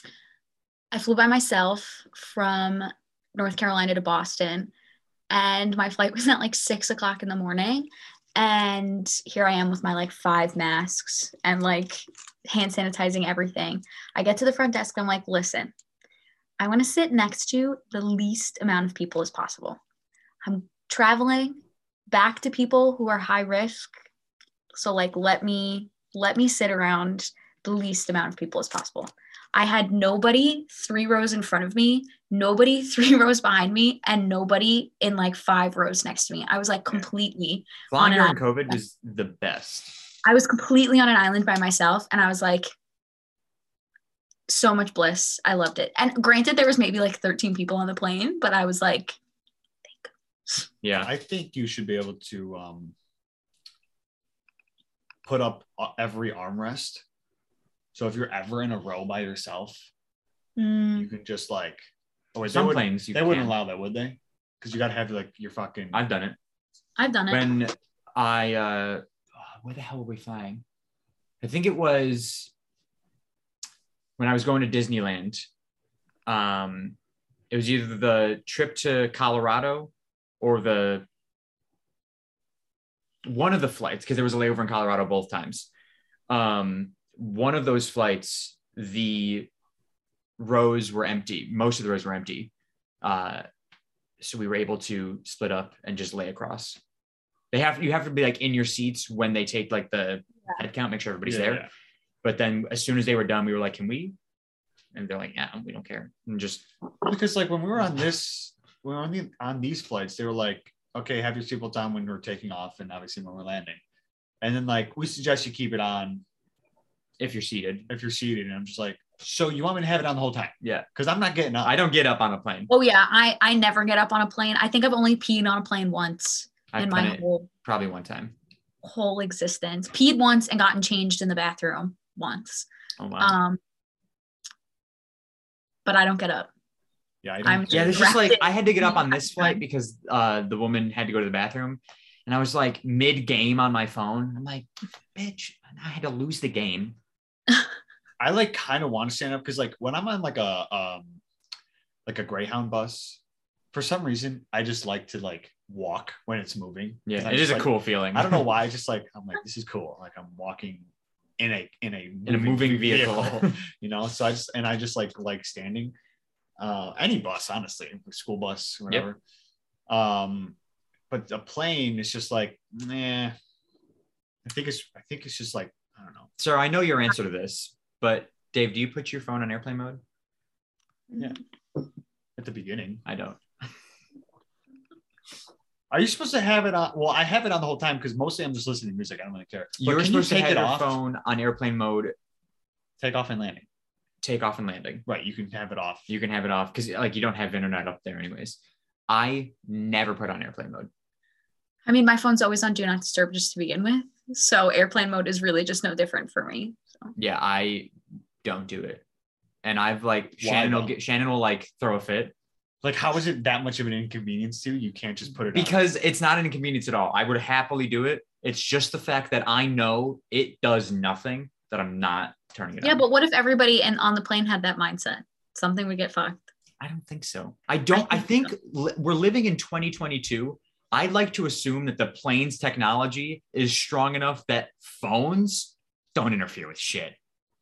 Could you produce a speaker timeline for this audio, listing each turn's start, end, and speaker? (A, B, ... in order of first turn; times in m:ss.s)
0:00.9-0:04.7 A
0:05.3-0:15.7 A
0:16.6-0:19.8 A
0:20.4-0:21.6 A
0:22.1-0:23.9 A
0:24.7-0:38.8 A
0:37.9-0:39.9 B
0:40.2-0:42.7 A
0:44.5-0:49.2 A
0:49.9-0:50.6 A
0:50.8-0:51.1 B
0:51.0-0:52.9 C
0:55.2-0:57.0 C
0:57.9-0:59.9 C
1:00.6-1:01.1 A
1:00.9-1:06.0 C
1:02.5-1:03.5 B
1:05.9-1:06.4 B
1:07.0-1:07.5 A
1:07.3-1:10.6 B
1:11.4-1:12.5 B
1:14.2-1:15.5 B
1:16.3-1:17.0 B
1:17.5-1:21.1 B
1:23.2-1:25.7 B
1:26.3-1:29.5 B
1:30.4-1:32.5 B
1:33.0-1:33.4 B
1:34.2-1:36.8 B
1:37.5-1:41.6 B
1:41.2-1:41.7 C
1:42.2-1:44.2 B
1:44.9-1:46.7 B
1:47.0-1:53.8 C
1:54.4-1:56.2 C
1:57.2-1:57.9 B
1:57.9-2:01.7 C
2:00.6-2:00.9 B
2:01.6-2:02.7 B
2:02.7-2:07.5 A
2:06.7-2:08.3 B
2:08.8-2:12.7 A
2:13.0-2:13.4 B
2:13.2-2:13.6 A
2:15.8-2:16.5 A
2:17.2-2:18.2 C
2:17.4-2:19.6 A
2:17.7-2:27.0 B
2:28.2-2:31.2 C
2:32.0-2:33.2 C
2:33.7-2:45.9 C
2:37.1-2:38.5 B
2:42.2-2:43.6 B
2:46.6-2:49.2 C
2:49.9-2:50.6 C
2:51.1-2:53.3 C
2:54.4-2:56.3 C
2:56.4-3:00.0 B
3:02.4-3:03.0 C
3:03.0-3:03.4 B
3:05.9-3:11.0 C
3:09.8-3:12.1 B
3:13.0-3:13.7 C
3:14.2-3:15.0 B
3:15.1-3:16.1 C
3:16.1-3:18.6 B
3:19.1-3:20.9 B
3:21.8-3:27.1 A
3:27.2-3:27.9 B
3:28.4-3:29.0 B
3:29.6-3:32.3 B
3:30.4-3:30.9 C
3:32.8-3:35.9 C
3:35.5-3:43.0 B
3:42.8-3:46.5 A
3:46.8-3:57.2 B
3:47.9-3:48.5 A